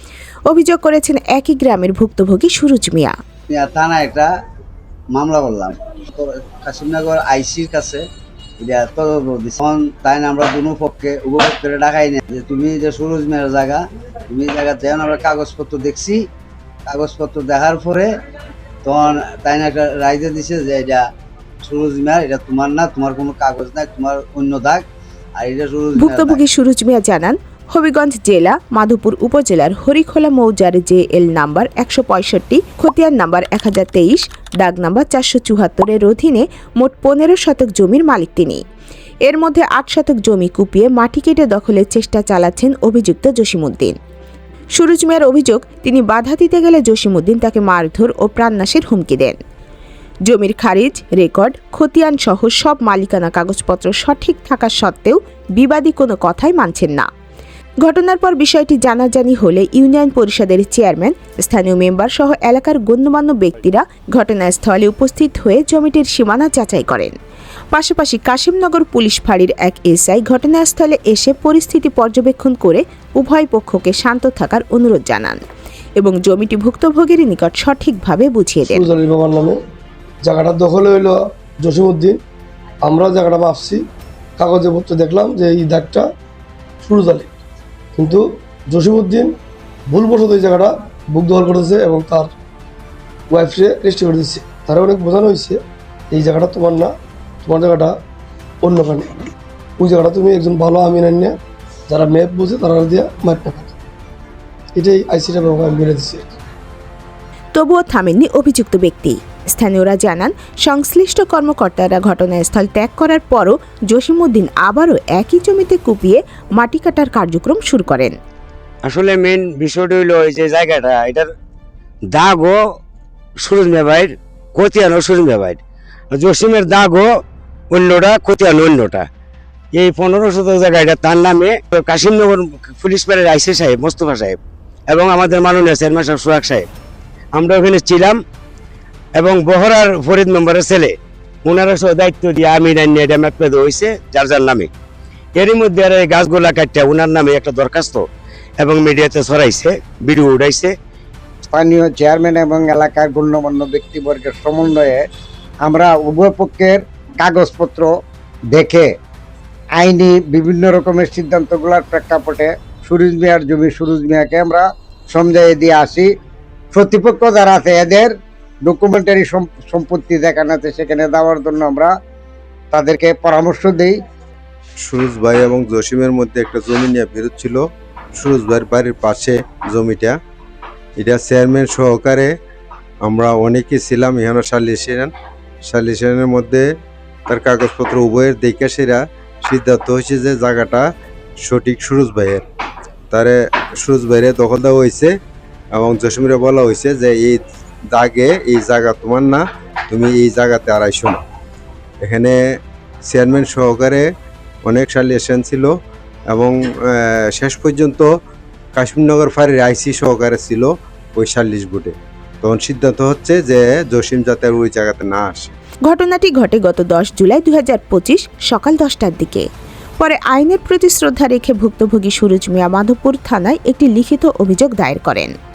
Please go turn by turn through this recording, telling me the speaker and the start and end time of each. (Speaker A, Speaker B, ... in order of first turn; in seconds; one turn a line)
Speaker A: 0.5-3.1
Speaker B: 3.5-4.3
Speaker B: 5.1-8.0
Speaker B: 8.6-16.2
Speaker B: 16.9-18.1
Speaker B: 18.8-21.0
Speaker B: 21.6-24.8
Speaker B: 25.4-26.4
Speaker A: 26.0-38.6
Speaker A: 39.3-44.0
Speaker A: 44.8-49.4
Speaker A: 50.3-57.1
Speaker A: 57.8-67.1
Speaker A: 67.7-75.4
Speaker A: 76.0-78.9
Speaker C: 78.7-79.6
Speaker C: 80.2-82.2
Speaker C: 82.8-83.8
Speaker C: 84.4-86.0
Speaker C: 86.8-87.3
Speaker C: 88.0-89.3
Speaker C: 89.9-92.3
Speaker C: 93.3-95.6
Speaker C: 96.1-96.9
Speaker C: 97.4-97.9
Speaker C: 98.6-99.1
Speaker C: 99.8-101.4
Speaker C: 101.9-103.7
Speaker C: 104.8-106.3
Speaker A: 107.5-118.2
Speaker D: 118.8-121.3
Speaker D: 122.1-122.6
Speaker D: 123.4-125.6
Speaker D: 126.1-127.1
Speaker D: 127.7-129.1
Speaker D: 129.7-134.4
Speaker D: 134.9-136.7
Speaker D: 137.3-138.2
Speaker D: 139.2-140.9
Speaker D: 141.4-144.7
Speaker D: 145.4-148.0
Speaker D: 148.6-150.7
Speaker E: 151.5-155.0
Speaker E: 155.7-157.9
Speaker E: 158.5-158.9
Speaker E: 159.8-166.1
Speaker E: 166.7-171.9
Speaker E: 172.7-174.0
Speaker F: 174.8-180.2
Speaker F: 181.0-182.3
Speaker F: 183.0-185.1
Speaker F: 185.7-186.7
Speaker F: 187.3-190.9
Speaker F: 191.4-192.4
Speaker F: 193.1-195.1
Speaker F: 195.8-197.4
Speaker F: 197.9-201.2
Speaker F: 202.1-202.4
Speaker F: 203.1-204.1
Speaker F: 204.7-205.7
Speaker F: 206.3-208.1
Speaker F: 208.8-215.5
Speaker A: 215.9-219.4
Speaker A: 220.0-225.3